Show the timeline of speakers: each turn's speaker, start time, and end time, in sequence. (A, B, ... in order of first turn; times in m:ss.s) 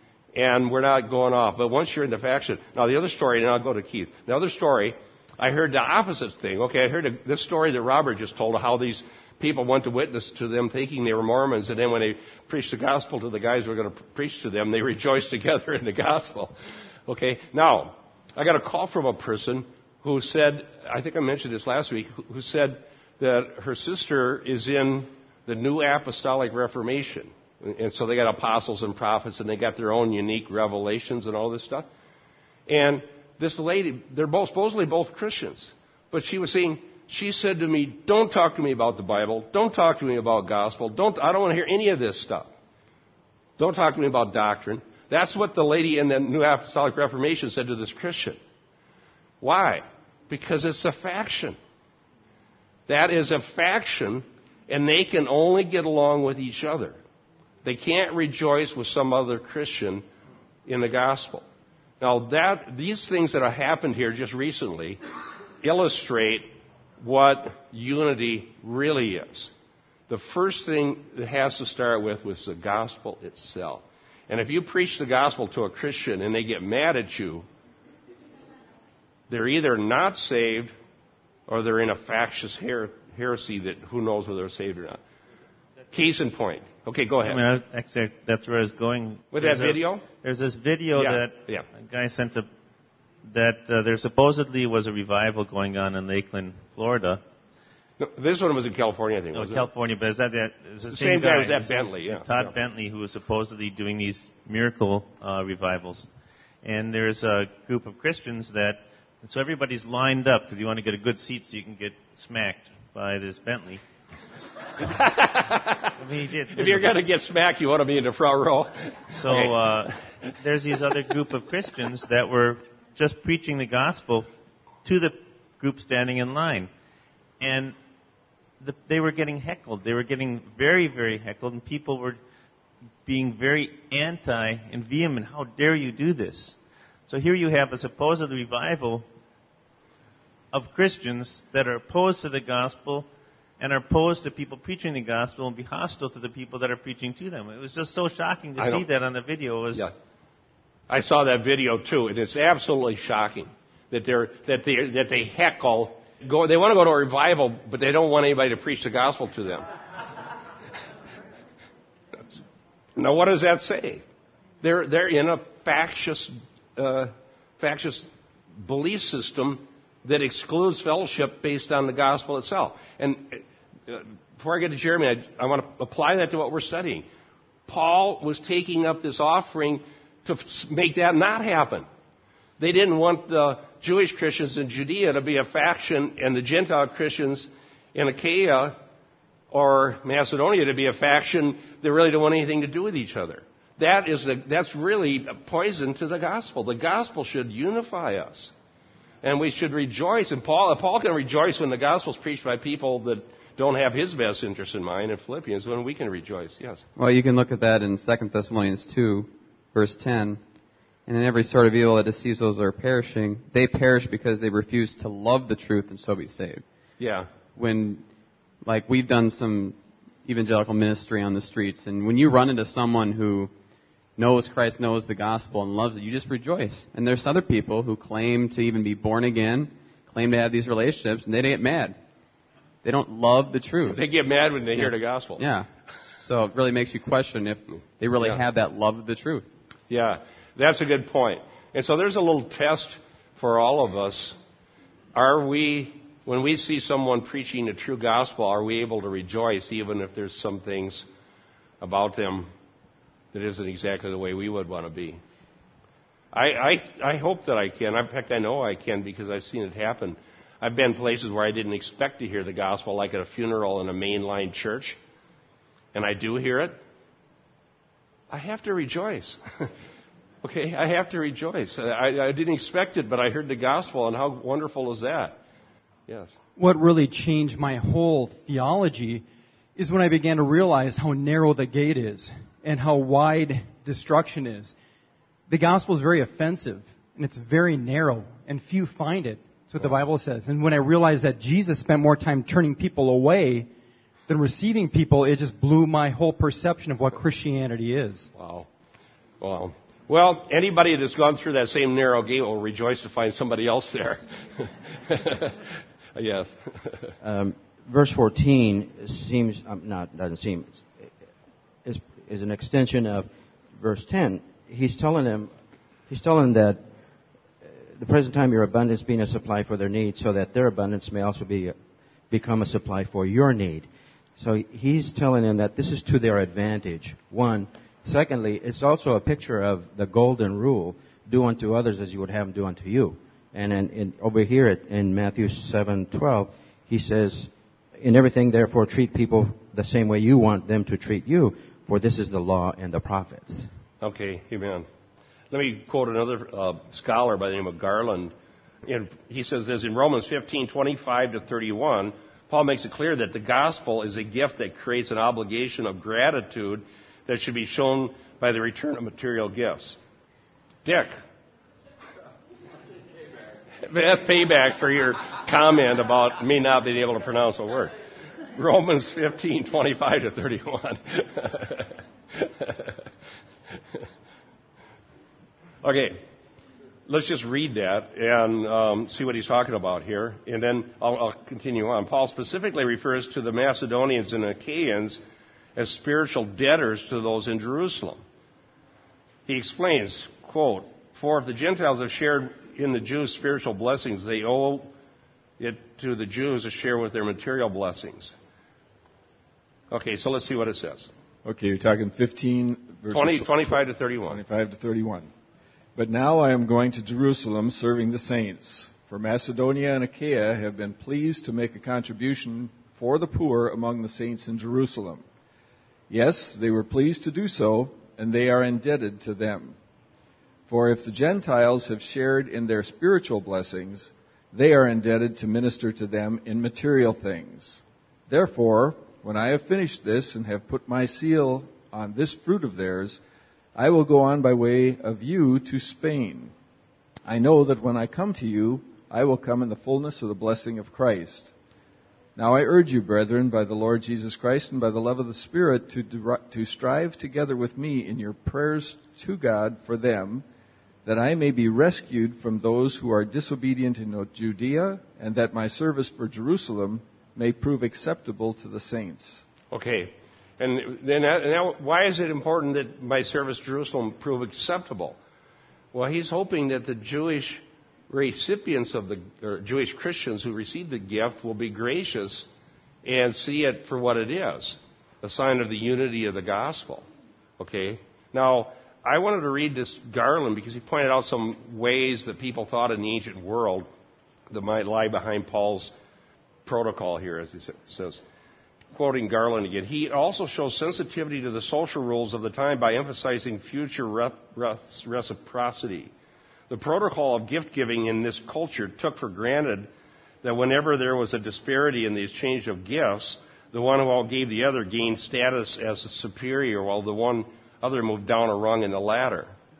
0:00.3-0:16.6 A
0:17.1-0:31.9 A
0:32.7-0:42.5 A
0:43.6-0:48.4 A
0:49.4-0:51.6 A
0:52.9-0:57.0 A
0:57.6-1:00.0 A
1:00.6-1:01.4 A
1:02.0-1:05.0 A
1:05.6-1:09.5 A
1:10.1-1:17.5 A
1:19.3-1:20.7 A
1:21.5-1:25.0 A
1:25.9-1:27.4 A
1:27.2-1:32.5 B
1:29.3-1:30.0 A
1:30.9-1:31.6 A
1:33.3-1:37.2 B
1:38.0-1:39.7 A
1:39.3-1:46.1 B
1:40.9-1:42.5 A
1:46.6-1:53.8 B
1:54.9-1:55.9 A
1:56.0-1:57.0 B
1:56.5-2:00.0 A
1:59.1-2:04.3 B
2:04.8-2:06.7 B
2:07.4-2:07.7 B
2:08.6-2:12.2 B
2:13.0-2:16.6 B
2:17.1-2:19.0 B
2:20.5-2:23.1 B
2:23.6-2:29.9 B
2:28.6-2:28.8 A
2:30.9-2:39.6 A
2:43.0-2:44.0 A
2:44.6-2:57.0 A
2:57.7-3:01.9 A
3:02.6-3:08.8 A
3:09.5-3:18.5 A
3:19.2-3:26.8 A
3:27.0-3:30.4 C
3:31.0-3:36.6 C
3:37.0-3:37.3 A
3:37.5-3:38.0 C
3:38.6-3:43.5 C
3:44.2-3:52.0 C
3:52.8-3:54.0 C
3:53.9-3:55.4 A
3:54.8-3:55.7 C
3:56.2-3:59.5 C
3:59.9-4:04.4 A
4:05.1-4:11.0 A
4:11.8-4:12.5 A
4:13.3-4:15.2 A
4:16.3-4:25.0 A
4:25.9-4:26.8 A
4:28.3-4:29.7 A
4:30.4-4:35.4 A
4:36.1-4:36.4 A
4:36.6-4:39.2 D
4:39.8-4:44.7 D
4:45.5-4:53.7 D
4:54.3-4:58.3 D
4:58.3-4:58.7 A
4:59.4-5:05.6 A
5:06.1-5:07.1 A
5:07.2-5:11.1 E
5:11.8-5:15.5 E
5:16.1-5:16.9 E
5:17.6-5:21.8 E
5:22.3-5:43.7 E
5:44.0-5:44.8 A
5:45.5-5:48.3 A
5:48.8-6:00.0 A
6:00.8-6:01.1 A
6:03.8-6:07.9 A
6:08.5-6:12.9 A
6:15.8-6:16.2 A
6:17.1-6:25.2 A
6:25.8-6:28.2 A
6:29.4-6:34.9 A
6:35.6-6:38.3 A
6:39.9-6:41.1 A
6:41.4-6:45.3 F
6:43.1-6:44.4 A
6:46.0-6:55.2 F
6:56.1-6:59.8 F
7:00.7-7:13.2 F
7:13.7-7:16.5 F
7:17.2-7:21.5 F
7:22.4-7:30.4 F
7:31.0-7:39.5 F
7:39.7-7:45.2 A
7:45.9-7:52.5 A
7:53.0-7:57.0 A
7:57.6-8:03.9 A
8:04.5-8:05.9 A
8:06.6-8:08.2 A
8:08.9-8:16.1 A
8:16.7-8:19.9 A
8:20.4-8:29.5 A